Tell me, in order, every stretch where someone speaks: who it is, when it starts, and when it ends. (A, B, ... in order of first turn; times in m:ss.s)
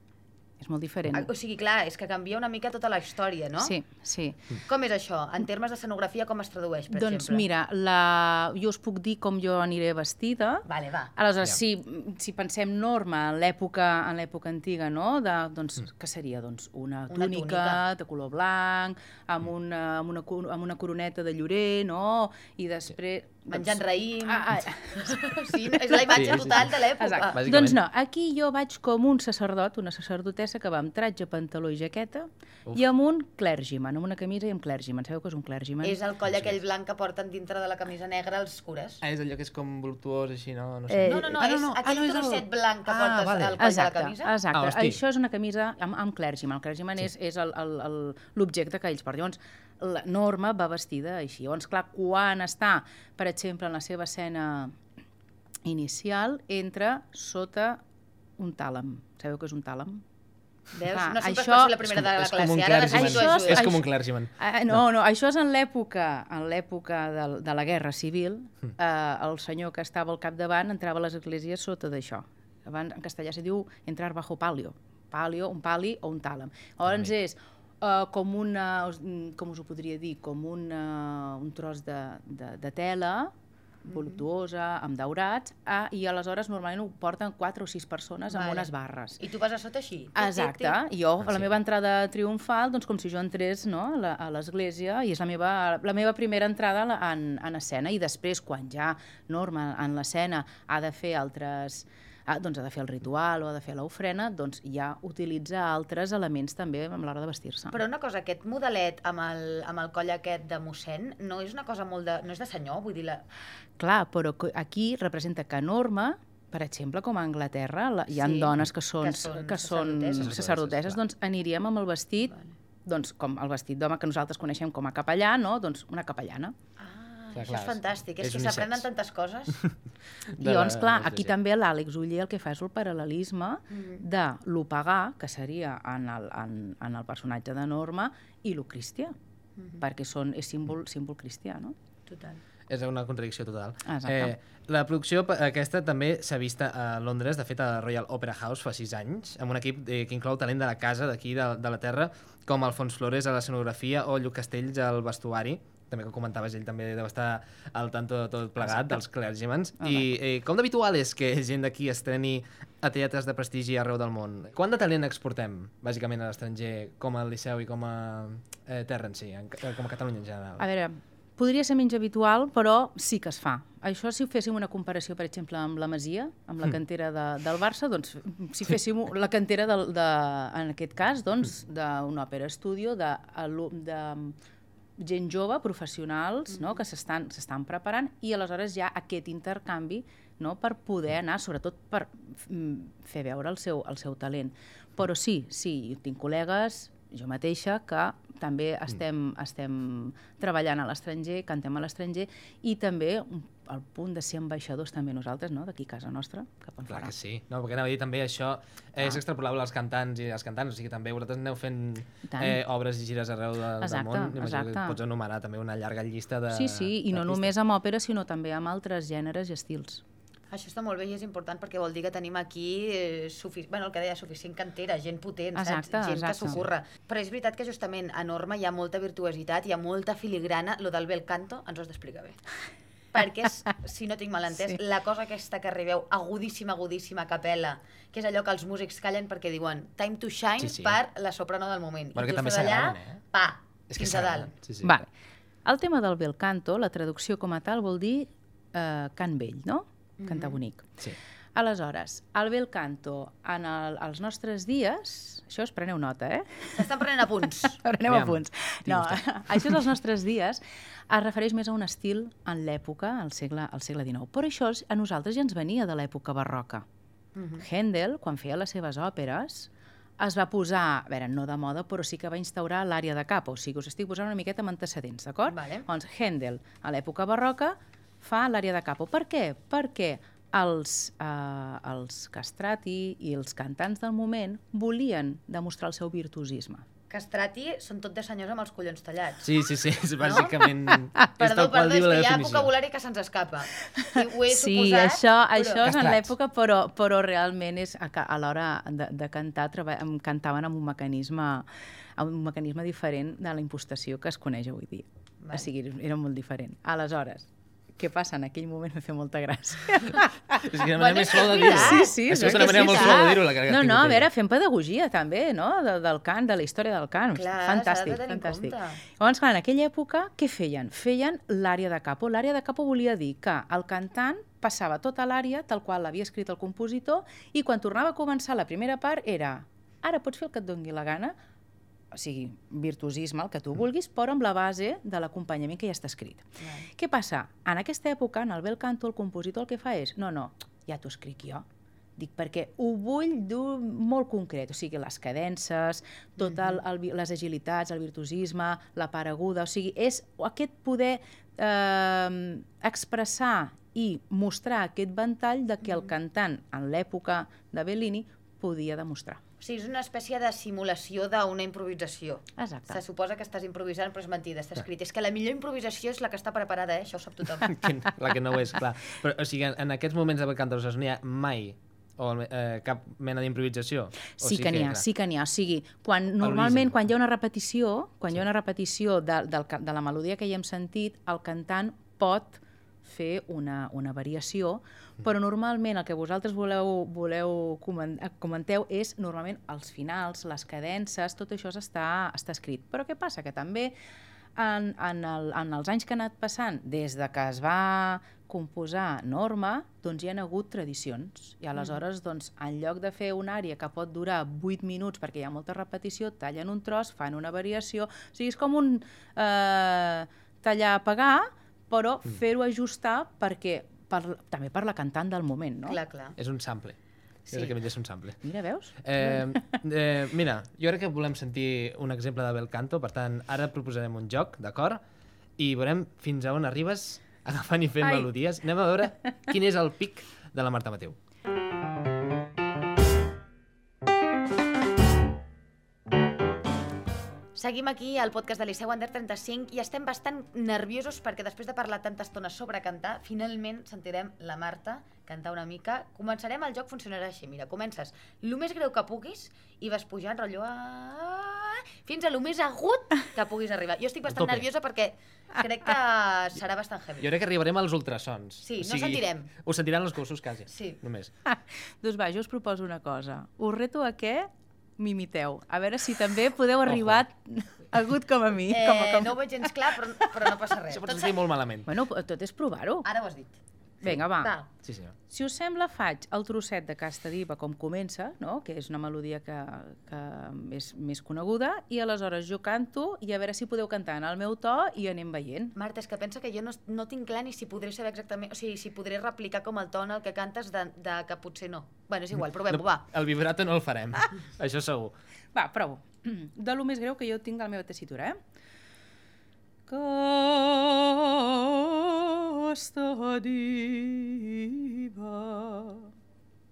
0:00.6-0:01.3 A
0:01.1-0:03.7 B
0:03.6-0:04.4 A
0:04.7-0:07.4 B
0:06.9-0:36.0 A
0:10.7-0:11.1 B
0:17.1-0:17.8 B
0:23.5-0:27.5 B
0:26.1-0:26.8 C
0:27.3-0:27.8 C
0:35.8-0:39.0 B
0:36.3-0:36.6 C
0:39.0-0:43.6 C
0:40.9-0:41.4 A
0:41.0-0:44.3 B
0:43.6-0:54.8 A
0:44.5-0:45.0 C
0:55.7-0:57.8 A
0:58.4-1:00.0 A
1:00.7-1:03.7 B
1:00.9-1:01.8 A
1:01.8-1:04.8 C
1:02.8-1:23.3 A
1:16.9-1:17.1 C
1:23.8-1:29.2 A
1:23.9-1:24.2 B
1:28.3-1:30.8 B
1:30.2-1:47.8 A
1:31.2-1:31.5 C
1:47.7-1:53.2 B
1:53.8-2:02.3 A
1:58.1-2:00.4 B
2:00.2-2:01.0 C
2:02.3-2:02.5 B
2:02.9-2:06.5 A
2:06.8-2:09.6 B
2:07.3-2:08.9 C
2:10.3-2:11.3 C
2:10.4-2:19.2 A
2:13.7-2:14.0 B
2:19.8-2:21.8 A
2:22.1-2:22.4 B
2:22.7-2:50.6 C
2:23.9-2:24.4 A
2:38.6-2:39.0 A
2:39.8-2:40.1 A
2:50.6-3:04.4 A
3:05.0-3:27.1 A
3:06.5-3:06.8 B
3:26.9-3:37.5 C
3:32.3-3:32.6 A
3:33.8-3:35.0 A
3:36.5-3:40.0 A
3:40.5-3:52.4 B
3:45.6-3:46.6 A
3:53.1-4:04.5 B
3:54.5-3:54.8 A
4:00.6-4:01.0 C
4:02.2-4:03.2 C
4:03.9-4:04.9 C
4:04.8-4:05.1 A
4:05.6-4:10.9 A
4:10.2-4:10.6 B
4:11.6-4:16.9 A
4:16.8-4:17.8 B
4:17.7-4:26.8 A
4:18.1-4:19.9 C
4:27.4-4:27.6 B
4:27.6-4:46.8 A
4:35.5-4:35.9 B
4:47.1-4:49.5 B
4:49.4-4:52.7 C
4:50.2-4:50.6 B
4:50.9-4:51.2 A
4:51.4-4:55.9 B
4:54.0-5:01.7 A
4:55.8-4:56.3 C
5:02.2-5:10.6 A
5:05.4-5:05.7 B
5:10.6-5:14.3 C
5:10.9-5:13.2 B
5:11.3-5:31.4 A
5:17.3-5:19.0 B
5:32.1-5:41.6 A
5:36.6-5:36.9 B
5:42.2-5:59.4 A
5:46.4-5:46.8 B
5:59.6-6:07.8 B
6:02.6-6:03.0 A
6:07.6-6:15.0 C
6:14.4-6:33.9 A
6:16.4-6:17.0 C
6:34.6-6:56.0 A
6:41.8-6:42.0 B
6:55.9-6:56.4 B
6:56.4-6:58.4 C
6:58.4-6:59.7 A
6:59.0-7:05.0 C
7:05.6-7:11.2 C
7:17.6-7:37.3 B
7:34.3-7:34.7 C
7:37.2-7:41.3 C
7:38.6-7:39.5 B
7:40.7-7:41.0 B
7:41.5-7:49.7 A
7:46.9-7:47.2 C
7:48.7-7:51.4 B
7:50.9-7:51.9 C
7:51.9-7:53.1 A
7:53.0-7:53.6 B
7:54.0-7:54.5 A
7:54.1-7:54.7 B
7:54.8-7:55.1 C
7:55.3-8:05.7 A
8:05.8-8:13.0 B
8:12.4-8:15.2 C
8:15.6-8:18.4 A
8:19.9-8:26.1 A